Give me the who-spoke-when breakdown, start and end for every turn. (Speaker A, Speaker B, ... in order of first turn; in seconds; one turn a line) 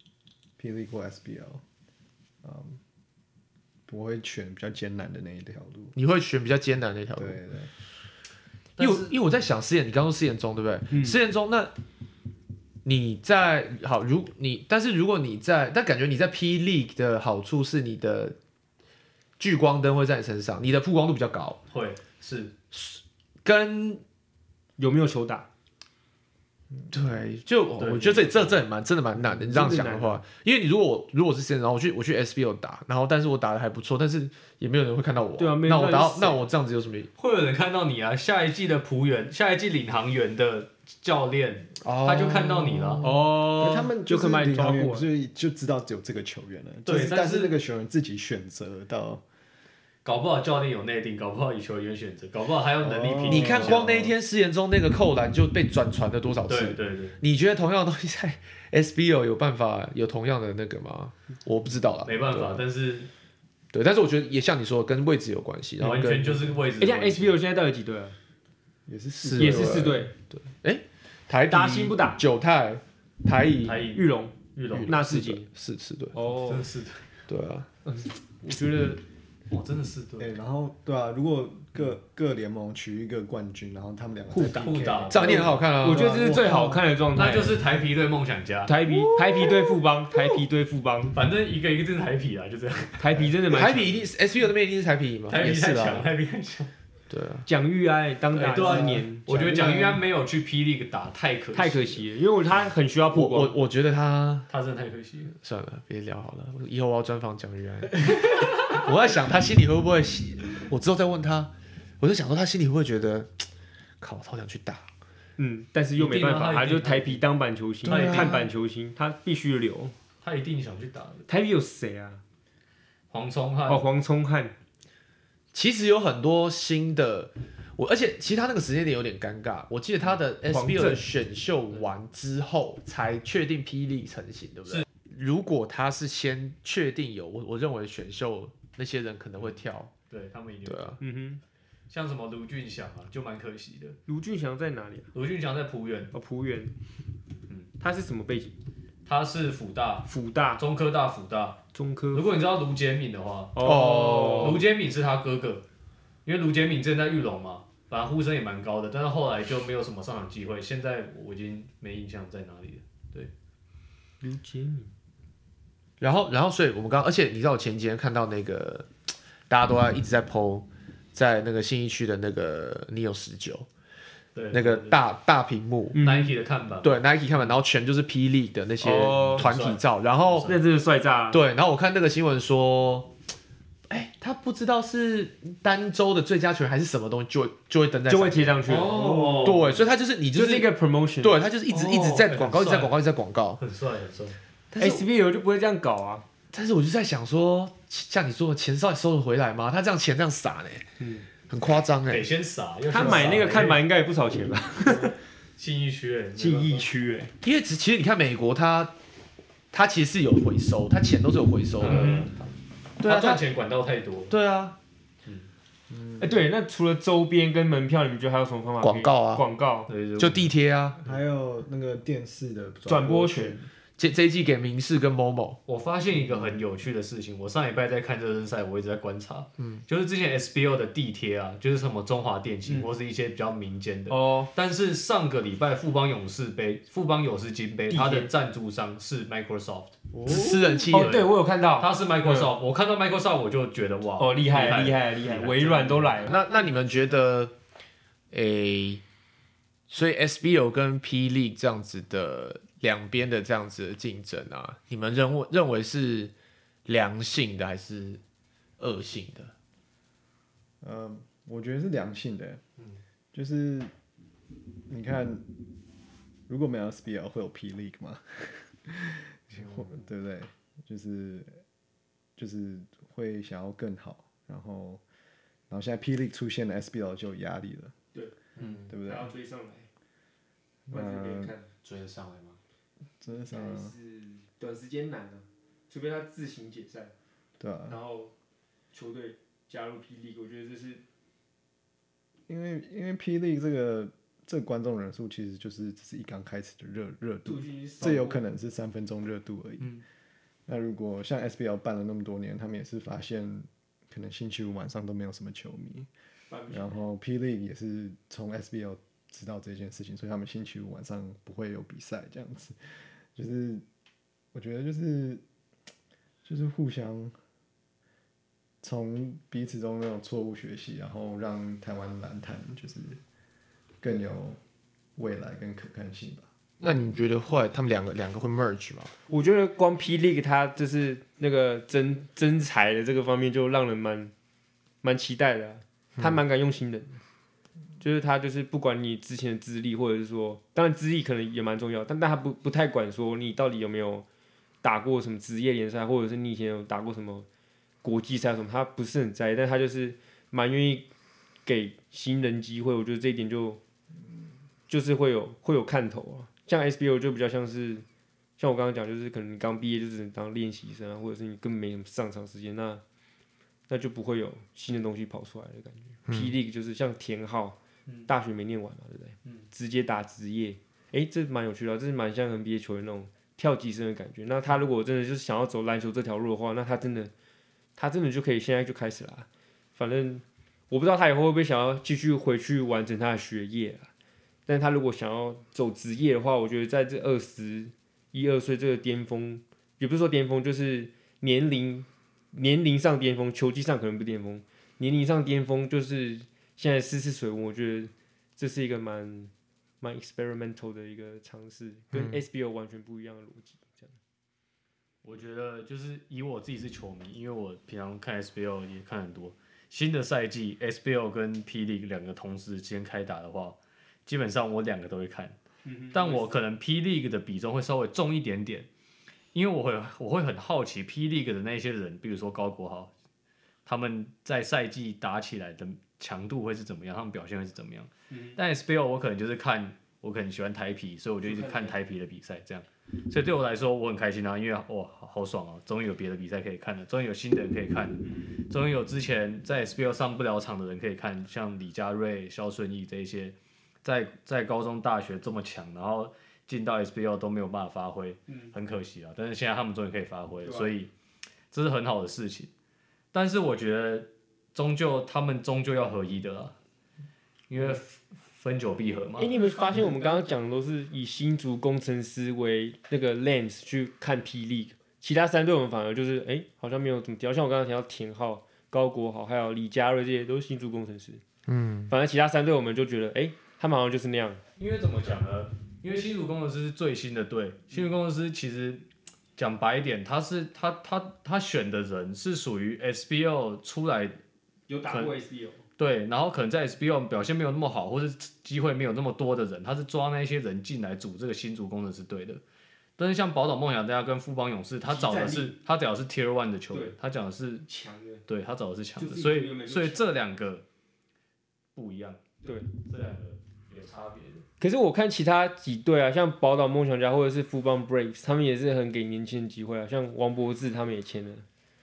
Speaker A: 0.6-1.6
Speaker A: 2.4-2.8
Speaker A: 3.9-5.9
Speaker B: 5.9-7.4
Speaker A: 7.2-7.7
Speaker C: 8.8-9.1
Speaker B: 8.8-11.7
Speaker D: 10.9-11.2
Speaker B: 12.8-18.3
Speaker B: 19.4-21.6
Speaker C: 21.7-22.5
Speaker B: 22.7-24.0
Speaker D: 24.8-25.5
Speaker B: 26.9-37.1
Speaker C: 27.8-28.6
Speaker D: 29.1-30.2
Speaker D: 35.4-36.4
Speaker C: 37.2-43.1
Speaker B: 41.8-43.3
Speaker D: 43.0-45.1
Speaker A: 43.3-49.2
Speaker C: 46.9-47.5
Speaker C: 50.0-54.1
Speaker A: 52.8-54.1
Speaker B: 53.3-62.6
Speaker C: 56.5-57.2
Speaker C: 62.0-63.1
Speaker B: 63.7-66.4
Speaker C: 65.8-67.3
Speaker D: 66.8-68.2
Speaker A: 68.9-69.9
Speaker B: 69.2-73.9
Speaker D: 69.4-70.1
Speaker D: 71.5-72.2
Speaker C: 73.6-75.0
Speaker D: 73.9-75.5
Speaker B: 74.7-76.2
Speaker D: 76.1-76.7
Speaker C: 76.3-77.0
Speaker B: 77.3-77.7
Speaker D: 77.8-79.0
Speaker C: 79.5-80.3
Speaker A: 80.2-86.8
Speaker D: 84.3-84.6
Speaker C: 84.4-85.6
Speaker B: 85.1-86.2
Speaker D: 85.8-87.6
Speaker C: 87.1-88.7
Speaker D: 88.7-91.2
Speaker C: 91.1-93.2
Speaker D: 93.0-93.9
Speaker B: 93.5-96.0
Speaker C: 95.3-96.7
Speaker B: 97.1-97.5
Speaker D: 97.5-99.6
Speaker C: 98.3-102.0
Speaker A: 98.5-100.0
Speaker D: 101.5-103.5
Speaker B: 103.1-104.5
Speaker C: 104.5-105.3
Speaker B: 105.4-113.4
Speaker B: 114.0-114.9
Speaker D: 115.4-119.9
Speaker C: 116.0-117.2
Speaker C: 117.8-118.5
Speaker B: 117.9-118.4
Speaker C: 120.2-121.3
Speaker D: 121.3-122.2
Speaker C: 123.1-123.9
Speaker D: 123.7-124.5
Speaker B: 125.5-139.9
Speaker D: 130.5-131.0
Speaker C: 139.3-141.0
Speaker B: 140.7-141.0
Speaker D: 141.0-141.4
Speaker C: 141.9-144.0
Speaker D: 144.1-145.1
Speaker C: 145.1-146.1
Speaker D: 146.1-146.7
Speaker D: 147.8-148.6
Speaker C: 149.1-151.6
Speaker D: 150.1-150.6
Speaker D: 151.7-152.3
Speaker C: 152.1-155.6
Speaker D: 153.5-154.6
Speaker B: 153.6-154.6
Speaker C: 156.2-163.3
Speaker D: 164.2-164.9
Speaker B: 166.0-168.9
Speaker B: 169.5-173.7
Speaker C: 174.3-175.0
Speaker B: 174.5-176.0
Speaker D: 175.9-176.3
Speaker C: 176.0-177.5
Speaker B: 176.8-180.5
Speaker D: 178.8-179.5
Speaker C: 179.1-180.6
Speaker D: 180.4-181.4
Speaker B: 181.3-183.1
Speaker B: 183.9-193.6
Speaker D: 188.1-189.6
Speaker C: 188.7-189.8
Speaker D: 190.3-191.4
Speaker C: 191.7-192.9
Speaker C: 193.6-194.4
Speaker B: 194.7-195.0
Speaker D: 194.8-196.2
Speaker B: 196.5-200.9
Speaker D: 201.0-201.3
Speaker B: 201.5-202.3
Speaker C: 202.1-203.8
Speaker D: 202.9-205.1
Speaker B: 203.0-203.3
Speaker C: 204.7-206.9
Speaker D: 206.4-207.3
Speaker B: 207.4-208.9
Speaker B: 209.7-212.3
Speaker C: 211.8-214.3
Speaker B: 213.0-213.4
Speaker B: 214.3-214.8
Speaker A: 215.9-216.4
Speaker D: 216.2-219.9
Speaker B: 218.8-219.4
Speaker C: 219.9-220.5
Speaker B: 220.2-221.0
Speaker A: 221.0-223.7
Speaker D: 222.9-223.6
Speaker B: 224.0-225.6
Speaker C: 225.7-240.1
Speaker D: 234.1-234.5
Speaker D: 237.9-238.3
Speaker A: 240.2-240.8
Speaker B: 240.2-241.2
Speaker D: 240.9-242.5
Speaker C: 240.9-246.4
Speaker D: 244.2-246.3
Speaker B: 246.2-247.5
Speaker B: 248.3-249.0
Speaker B: 249.9-256.3
Speaker B: 256.9-258.2
Speaker B: 258.8-259.5
Speaker A: 260.8-262.6
Speaker A: 263.3-263.9
Speaker A: 264.9-265.4
Speaker A: 266.5-271.6
Speaker A: 272.4-275.0
Speaker A: 275.7-277.9
Speaker B: 278.6-278.9
Speaker A: 278.6-279.3
Speaker D: 279.0-279.9
Speaker A: 280.9-281.5
Speaker D: 280.9-281.7
Speaker B: 281.8-282.6
Speaker A: 283.2-283.9
Speaker D: 283.4-287.1
Speaker A: 287.6-288.0
Speaker D: 287.9-288.3
Speaker D: 288.9-291.0
Speaker A: 292.5-300.0
Speaker D: 297.4-298.4
Speaker A: 300.7-306.1
Speaker D: 306.5-307.0
Speaker A: 306.7-312.8
Speaker A: 313.3-313.8
Speaker A: 314.5-315.4
Speaker A: 316.4-317.4
Speaker A: 318.8-323.2
Speaker A: 324.0-324.6
Speaker A: 325.1-326.5
Speaker B: 326.8-329.1
Speaker D: 329.3-334.3
Speaker D: 335.0-337.2
Speaker D: 338.0-344.2
Speaker D: 344.8-347.4
Speaker D: 348.0-351.1
Speaker D: 351.6-353.8
Speaker D: 354.9-358.0
Speaker D: 358.6-363.0
Speaker D: 363.9-377.3
Speaker B: 366.3-366.5
Speaker D: 378.0-384.1
Speaker D: 384.7-404.2
Speaker B: 402.1-402.4
Speaker C: 405.2-415.6
Speaker D: 415.8-416.6
Speaker C: 416.1-418.9
Speaker C: 419.5-423.1
Speaker C: 423.9-451.1
Speaker D: 428.3-428.6
Speaker D: 431.4-431.9
Speaker D: 438.2-438.5
Speaker D: 448.5-448.7
Speaker C: 451.7-452.7
Speaker C: 453.3-456.8
Speaker C: 457.7-459.5
Speaker D: 459.4-471.4
Speaker B: 471.7-472.1
Speaker D: 472.1-474.6
Speaker C: 474.8-484.4
Speaker D: 484.9-485.8
Speaker C: 485.1-485.3
Speaker C: 486.0-492.6
Speaker C: 493.2-497.9
Speaker D: 495.1-495.7
Speaker D: 497.9-498.4
Speaker C: 498.5-500.8
Speaker D: 499.2-500.2
Speaker C: 501.9-504.6
Speaker D: 502.6-502.9
Speaker D: 504.8-511.6